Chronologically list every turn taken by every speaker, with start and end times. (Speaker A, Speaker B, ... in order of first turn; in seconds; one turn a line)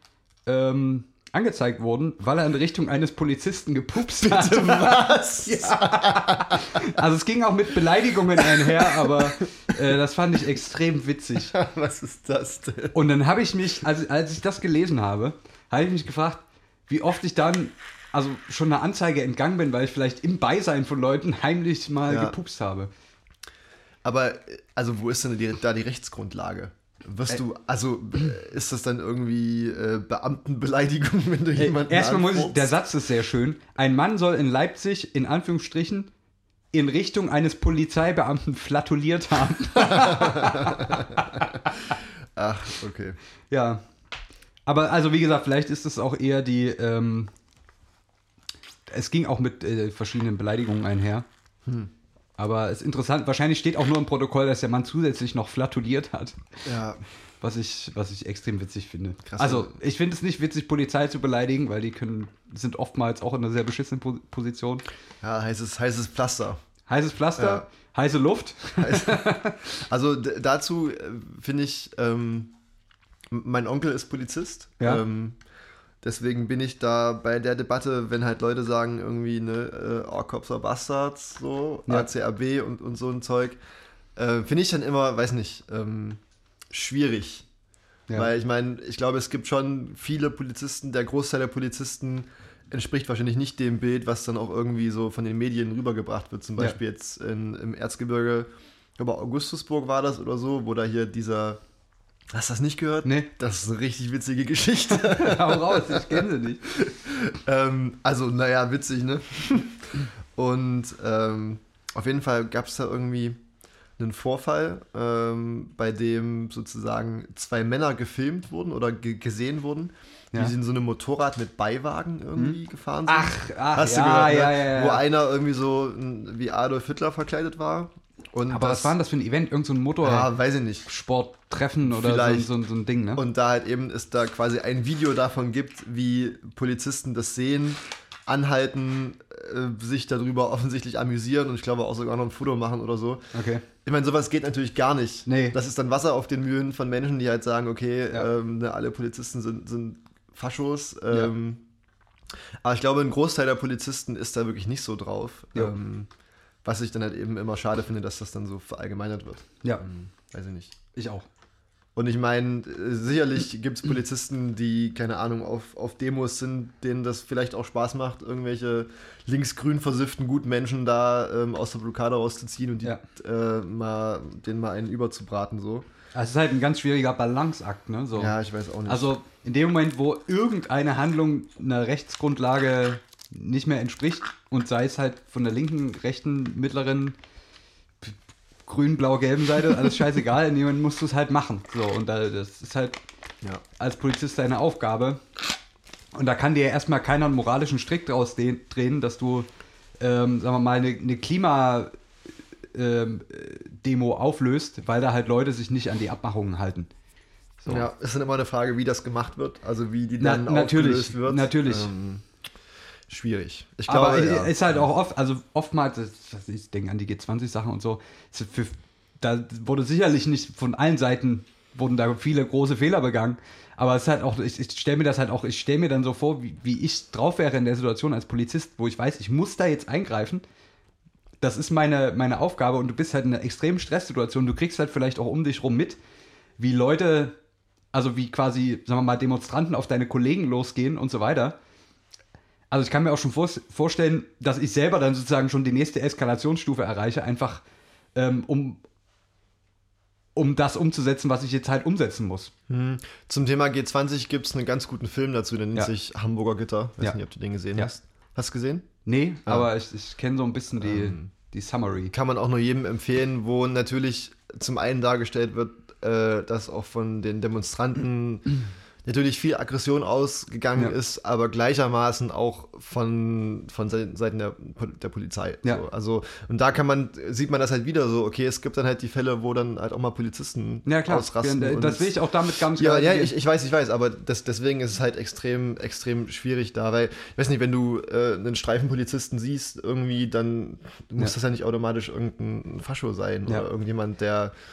Speaker A: 0.5-11.5
Speaker B: 4.1-6.9
Speaker B: 8.3-9.3
Speaker B: 11.4-12.9
Speaker A: 12.9-22.9
Speaker B: 22.1-22.4
Speaker B: 24.0-32.7
Speaker A: 31.5-36.1
Speaker A: 36.7-41.8
Speaker B: 39.8-43.2
Speaker A: 43.5-43.8
Speaker A: 44.6-47.3
Speaker A: 48.9-51.2
Speaker B: 51.6-51.9
Speaker A: 52.4-56.4
Speaker B: 56.6-57.0
Speaker A: 57.4-64.8
Speaker B: 59.2-59.8
Speaker B: 65.2-66.6
Speaker A: 66.9-69.6
Speaker B: 67.4-67.7
Speaker B: 68.8-72.6
Speaker B: 73.3-75.4
Speaker B: 76.0-83.6
Speaker B: 84.2-87.5
Speaker B: 88.1-101.6
Speaker B: 102.3-113.4
Speaker A: 103.0-103.3
Speaker A: 104.9-106.7
Speaker B: 114.0-128.9
Speaker A: 122.3-125.0
Speaker A: 128.5-130.3
Speaker B: 130.0-130.9
Speaker A: 130.8-133.2
Speaker B: 131.8-132.5
Speaker B: 133.2-143.2
Speaker A: 143.3-143.6
Speaker B: 143.8-151.6
Speaker A: 145.3-145.6
Speaker B: 152.6-156.1
Speaker B: 156.6-160.8
Speaker A: 160.9-161.2
Speaker B: 161.9-175.8
Speaker A: 176.1-178.3
Speaker B: 178.2-179.1
Speaker A: 178.9-187.2
Speaker A: 188.7-193.0
Speaker A: 193.8-195.2
Speaker A: 196.1-199.5
Speaker A: 200.0-201.9
Speaker A: 202.7-206.9
Speaker A: 207.6-207.9
Speaker B: 207.7-212.2
Speaker A: 210.2-211.9
Speaker B: 213.1-214.8
Speaker A: 213.9-230.4
Speaker A: 231.4-236.0
Speaker A: 236.6-237.3
Speaker A: 237.9-241.6
Speaker A: 242.7-247.6
Speaker A: 248.1-248.8
Speaker A: 250.3-252.5
Speaker B: 252.7-258.9
Speaker A: 259.1-262.1
Speaker B: 260.8-261.3
Speaker B: 262.1-294.5
Speaker A: 280.9-283.3